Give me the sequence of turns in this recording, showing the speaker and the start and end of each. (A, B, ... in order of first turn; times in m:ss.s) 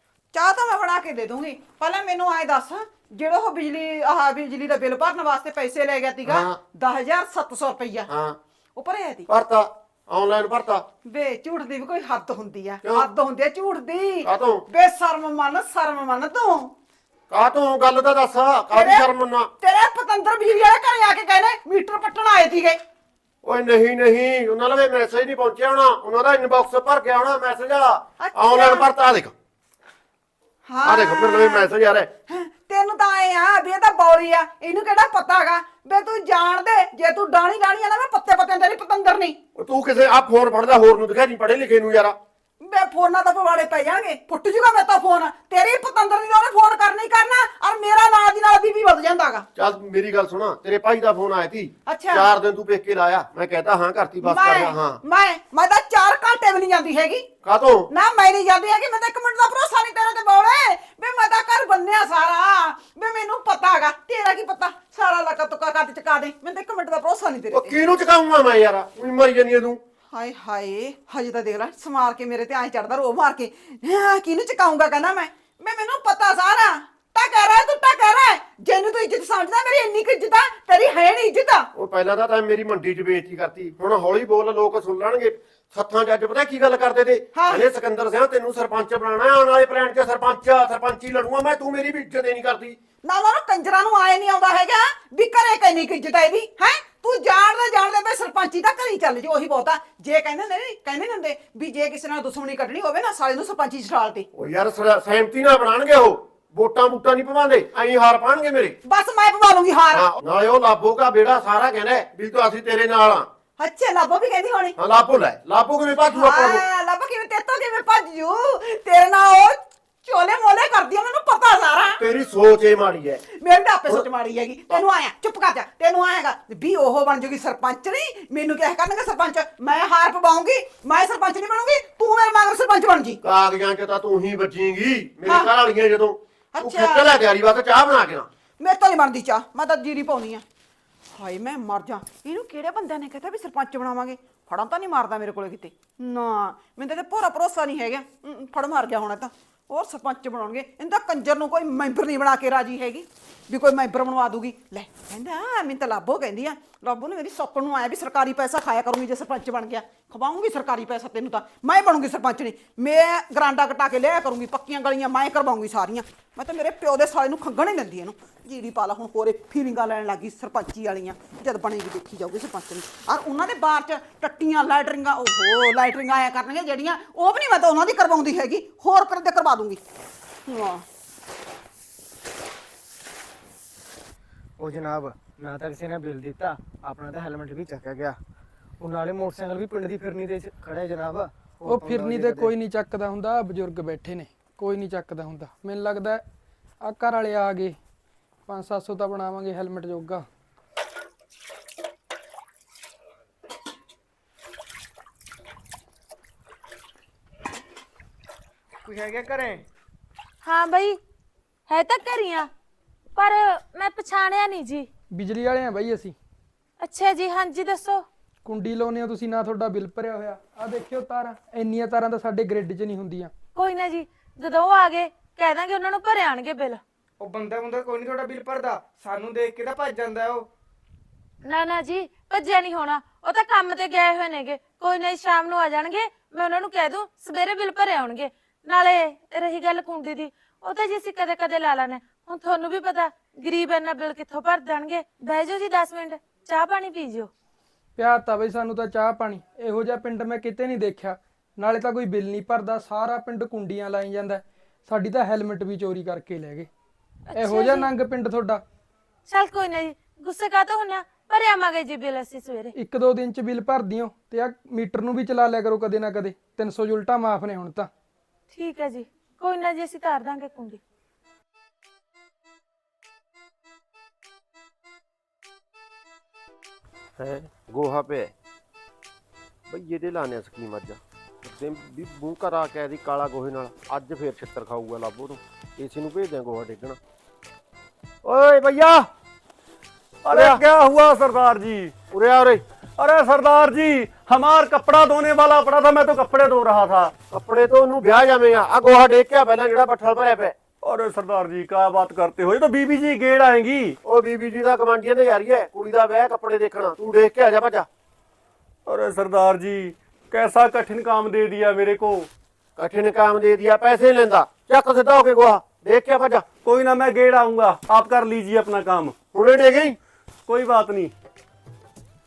0:00.3-0:08.1 A
0:06.2-0:06.6 B
0:08.1-0:08.4 B
0:08.8-0:09.3 A
0:09.3-0:10.8 B
0:11.0-0:16.7 A
0:14.2-0:14.6 B
0:17.3-0:19.5 B
0:18.7-0:19.1 A
0:19.6-0:22.8 A
0:23.4-0:29.3 B
0:28.2-0:28.9 A
0:30.6-0:31.7 A
0:30.8-0:32.1 B
0:32.3-0:39.4 A
0:39.5-0:42.2 B
0:42.6-0:49.4 A
0:49.6-0:55.0 B
0:51.9-0:52.3 A
0:54.2-0:57.3 A
0:57.4-0:57.9 B
0:57.9-1:07.8 A
1:07.5-1:09.8 B
1:10.1-1:21.7 A
1:21.7-1:32.8 B
1:27.3-1:27.6 A
1:33.0-1:44.3 A
1:44.3-1:48.8 B
1:48.8-1:50.0 A
1:49.9-1:53.3 B
1:53.6-1:54.7 A
1:54.8-1:56.6 B
1:56.1-2:02.0 A
2:02.0-2:03.2 B
2:03.3-2:13.2 A
2:13.2-2:18.3 B
2:16.5-2:17.1 A
2:18.6-2:20.4 A
2:21.1-2:59.8 A
3:00.4-3:00.8 A
3:04.6-3:08.2 C
3:08.8-3:12.5 C
3:11.7-3:16.2 D
3:16.8-3:17.8 D
3:18.5-3:20.3 D
3:28.8-3:29.6 C
3:30.4-3:31.0 E
3:31.7-3:32.5 E
3:33.2-3:34.9 E
3:35.1-3:36.2 D
3:36.8-3:38.0 E
3:38.4-3:43.3 D
3:43.5-3:46.8 E
3:47.2-3:50.5 C
3:51.4-4:07.3 E
4:08.0-4:16.7 D
4:17.3-4:17.9 E
4:17.4-4:18.6 D
4:19.3-4:22.7 E
4:22.7-4:27.9 D
4:28.5-4:30.8 E
4:37.2-4:38.3 B
4:39.7-4:47.0 B
4:48.2-4:49.1 B
4:50.2-4:51.9 F
4:50.3-4:50.6 B
4:52.1-4:52.6 B
4:53.0-4:57.1 F
4:57.3-5:00.5 B
5:00.8-5:04.0 F
5:04.0-5:07.9 B
5:08.8-5:12.3 F
5:12.8-5:16.4 B
5:16.6-5:19.1 F
5:19.3-5:20.0 B
5:20.5-5:21.1 F